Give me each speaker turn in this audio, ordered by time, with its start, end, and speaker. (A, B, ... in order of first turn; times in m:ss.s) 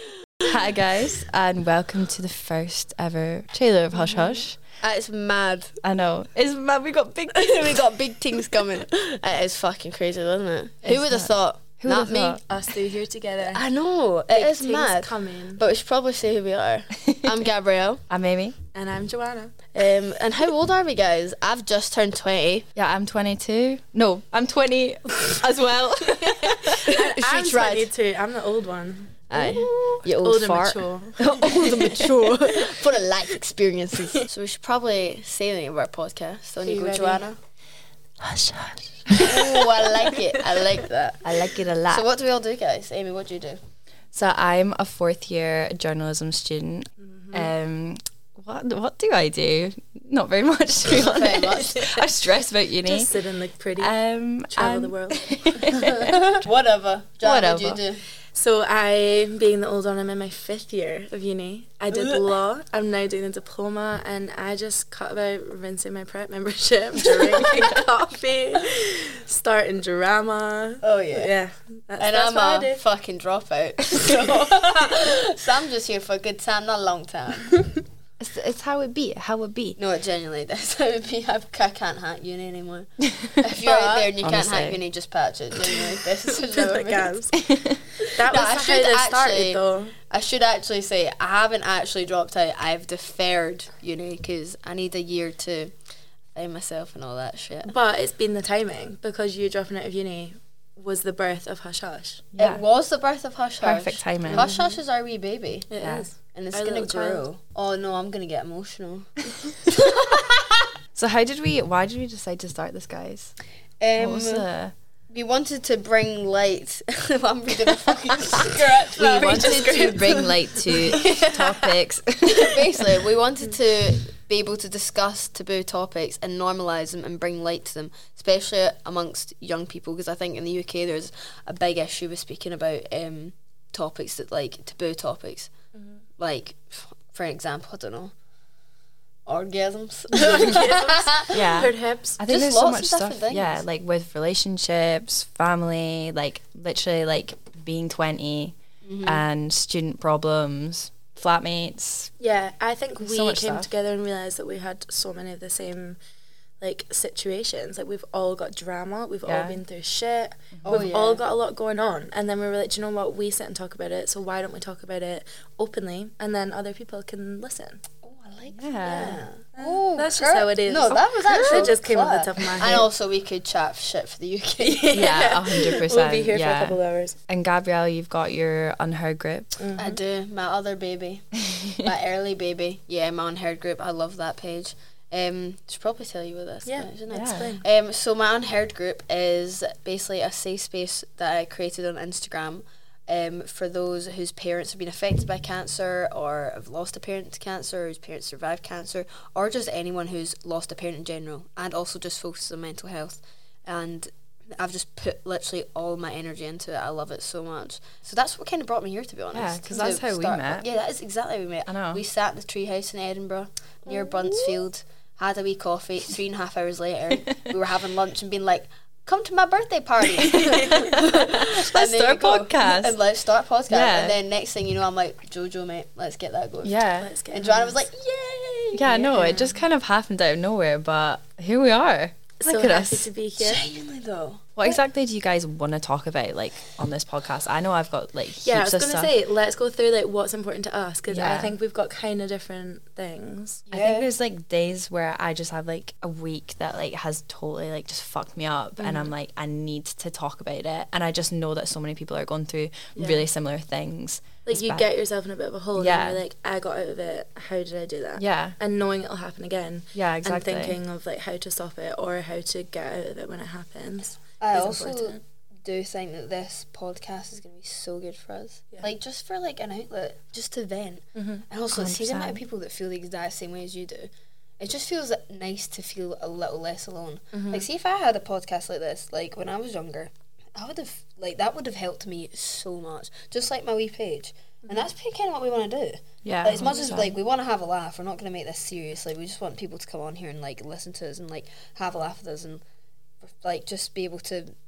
0:00.4-0:04.6 A
0:03.9-0:04.4 B
0:04.8-0:05.8 C
0:05.8-0:07.9 A
0:07.3-0:12.4 C
0:10.8-0:12.4 A
0:12.5-0:13.6 B
0:13.4-0:18.0 C
0:14.3-0:15.6 B
0:18.1-0:18.6 A
0:18.7-0:19.6 B
0:19.7-0:22.7 C
0:22.8-0:27.0 A
0:26.9-0:29.2 B
0:26.9-0:27.9 C
0:29.3-0:37.4 C
0:29.3-0:30.0 A
0:30.0-0:31.9 B
0:31.3-0:32.4 A
0:36.6-0:37.2 B
0:38.4-0:38.8 A
0:39.1-0:40.6 B
0:39.2-0:43.6 C
0:41.2-0:42.1 A
0:44.1-0:53.1 A
0:47.0-0:47.5 B
0:50.9-0:52.0 C
0:52.8-0:53.9 B
0:53.8-0:56.4 A
0:54.5-0:55.3 B
0:55.7-0:58.0 C
0:57.2-0:57.8 A
0:58.3-1:12.8 B
1:10.8-1:11.3 C
1:12.0-1:17.6 C
1:18.2-1:19.8 A
1:19.8-1:27.2 C
1:23.7-1:24.1 B
1:24.2-1:24.8 A
1:26.5-1:27.5 B
1:27.5-1:27.8 A
1:28.0-1:35.7 C
1:28.1-1:30.0 B
1:36.4-1:37.7 C
1:37.7-1:42.2 B
1:42.3-1:42.6 A
1:42.4-1:45.7 C
1:43.6-1:44.5 A
1:44.2-1:44.8 B
1:45.7-1:47.2 B
1:45.8-1:46.1 A
1:46.3-1:50.4 C
1:51.0-1:53.4 A
1:53.8-1:54.5 C
1:54.0-1:54.7 A
1:55.1-2:00.3 C
1:58.9-2:02.8 A
1:59.1-2:01.7 B
2:02.3-2:15.5 C
2:16.2-2:18.1 C
2:19.3-2:21.3 C
2:20.1-2:22.2 B
2:21.3-2:32.1 A
2:22.3-2:23.6 C
2:28.8-2:29.2 C
2:32.2-2:36.0 B
2:33.0-2:33.7 A
2:36.6-2:47.8 B
2:39.3-2:39.6 A
2:40.6-2:40.9 A
2:40.7-2:41.2 C
2:48.0-2:55.1 C
2:48.5-2:49.2 A
2:49.1-2:52.9 B
2:54.6-2:57.2 B
2:54.9-2:59.6 A
2:59.6-3:00.0 B
2:59.8-3:46.8 C
3:06.7-3:07.6 B
3:07.1-3:07.5 A
3:29.3-3:30.7 A
3:31.7-3:32.0 A
3:40.3-3:43.0 A
3:43.7-3:44.2 A
3:46.6-3:47.1 A
3:47.0-3:47.8 B
3:47.3-3:48.9 C
3:48.7-3:53.1 A
3:48.9-3:49.6 B
3:52.4-3:53.6 B
3:53.4-3:54.4 C
3:54.6-3:59.1 A
3:58.4-4:03.6 B
4:01.1-4:01.5 A
4:03.7-4:04.1 C
4:03.7-4:14.9 A
4:08.8-4:09.1 B
4:13.0-4:13.2 B
4:14.4-4:25.2 B
4:15.8-4:16.2 A
4:18.2-4:18.6 A
4:19.9-4:20.8 A
4:24.4-4:52.6 C
4:31.2-4:31.4 B
4:31.7-4:32.4 A
4:37.3-4:37.6 B
4:46.2-4:47.2 A
4:53.2-4:54.5 C